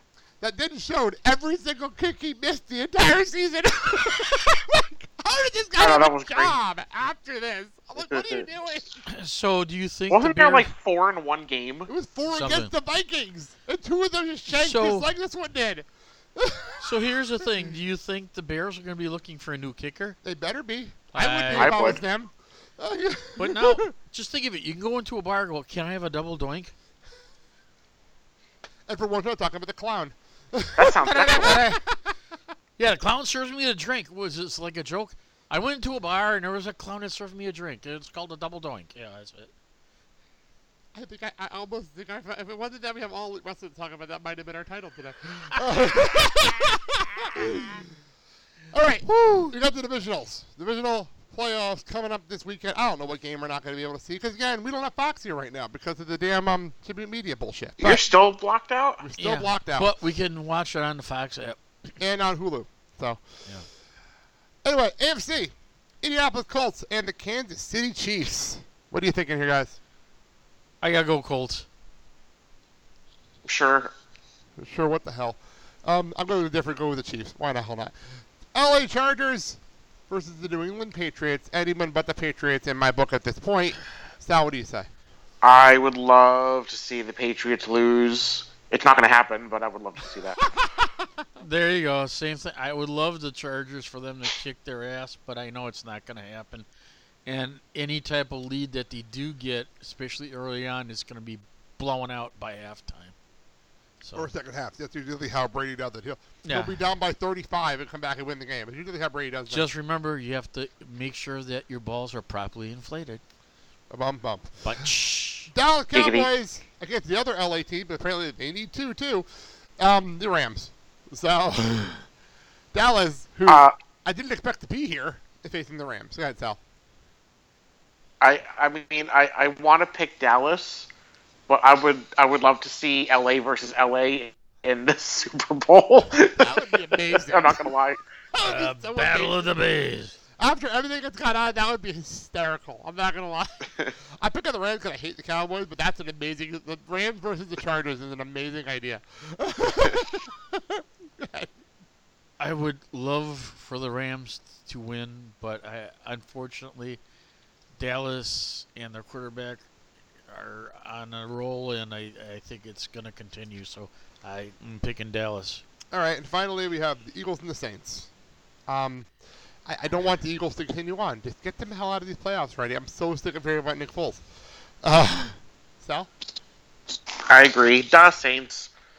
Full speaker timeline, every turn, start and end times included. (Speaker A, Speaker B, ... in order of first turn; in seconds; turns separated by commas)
Speaker A: 0.4-8.9, Speaker B: 5.8-6.5, Speaker B: 8.1-8.4, Speaker C: 9.1-10.7, Speaker B: 10.1-11.9, Speaker A: 11.9-16.9, Speaker C: 12.3-12.7, Speaker C: 14.5-15.1, Speaker C: 16.8-20.2, Speaker A: 20.2-23.9, Speaker C: 21.1-21.8, Speaker B: 21.5-22.0, Speaker C: 23.4-26.7, Speaker A: 28.9-32.2, Speaker B: 30.8-31.7, Speaker C: 32.8-39.5, Speaker A: 40.9-47.9, Speaker A: 48.7-58.0, Speaker B: 57.8-59.0, Speaker A: 59.0-59.9, Speaker C: 59.2-61.6, Speaker A: 62.0-63.2, Speaker A: 64.6-69.8, Speaker C: 70.8-71.7, Speaker B: 73.4-73.9, Speaker A: 74.6-78.0, Speaker A: 78.5-84.9, Speaker B: 85.4-90.4, Speaker A: 90.6-91.0, Speaker C: 91.4-96.7, Speaker C: 97.2-103.1, Speaker C: 104.0-104.3, Speaker A: 104.1-109.7, Speaker C: 106.4-106.8, Speaker C: 109.5-113.2, Speaker A: 113.9-114.6, Speaker C: 114.6-115.5, Speaker A: 115.5-119.3, Speaker B: 115.9-116.3, Speaker A: 119.8-122.0, Speaker A: 122.7-126.6, Speaker B: 123.5-123.7, Speaker B: 128.2-130.9, Speaker B: 131.5-136.5, Speaker A: 136.1-137.6, Speaker B: 137.2-138.0, Speaker A: 138.3-139.4, Speaker C: 138.4-140.2, Speaker A: 140.4-151.5, Speaker C: 152.4-157.0, Speaker C: 157.8-159.6, Speaker C: 160.3-165.6, Speaker A: 165.9-168.1, Speaker A: 168.7-169.1, Speaker A: 169.7-174.2, Speaker A: 174.8-176.1, Speaker B: 177.3-178.7